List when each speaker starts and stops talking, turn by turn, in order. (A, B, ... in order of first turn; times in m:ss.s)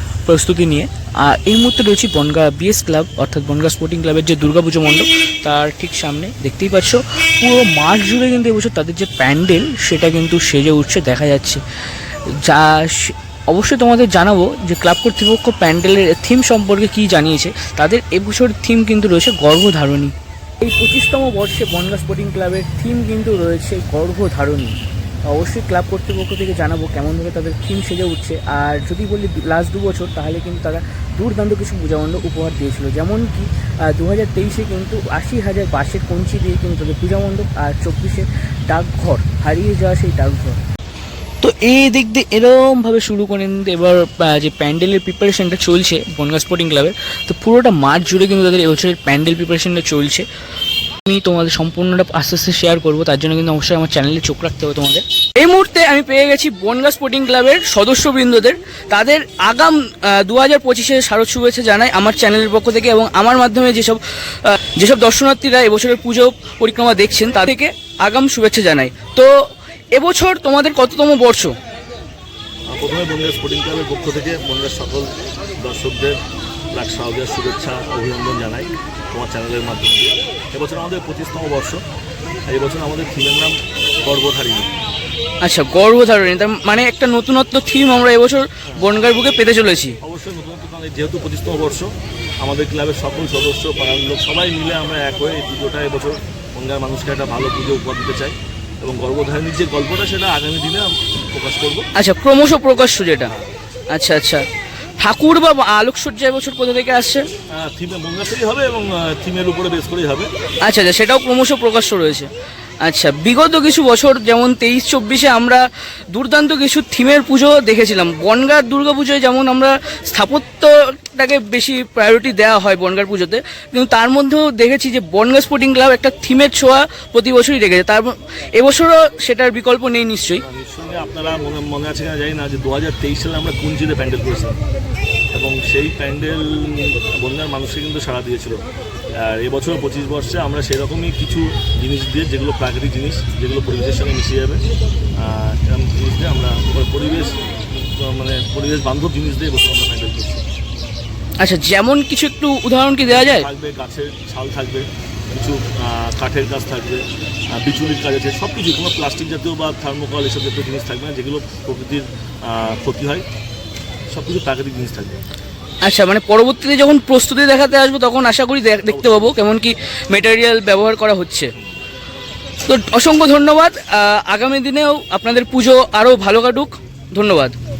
0:00.3-0:11.6 A
0:12.4-0:24.8 A
0:25.3-0:40.6 A
0:41.4-0:50.2 A
0:51.0-1:09.3 A
1:09.9-1:11.5 A
1:12.7-1:15.1 B
1:15.6-1:16.2 B
1:16.7-1:21.8 B
1:22.5-1:24.7 B
1:25.4-1:30.0 A
1:30.0-1:31.9 B
1:32.4-1:41.9 B
1:42.0-1:43.3 A
1:43.9-1:44.4 A
1:45.0-1:47.2 A
1:47.5-1:50.3 B
1:50.6-1:52.3 A
1:52.8-2:10.4 A
2:10.4-2:14.6 B
2:15.3-2:18.6 B
2:19.2-2:24.6 B
2:25.2-2:30.4 B
2:31.4-2:33.4 A
2:33.1-2:37.0 B
2:37.5-2:43.2 B
2:44.1-2:45.1 B
2:45.8-2:51.5 A
2:48.9-2:49.4 B
2:52.7-2:57.5 A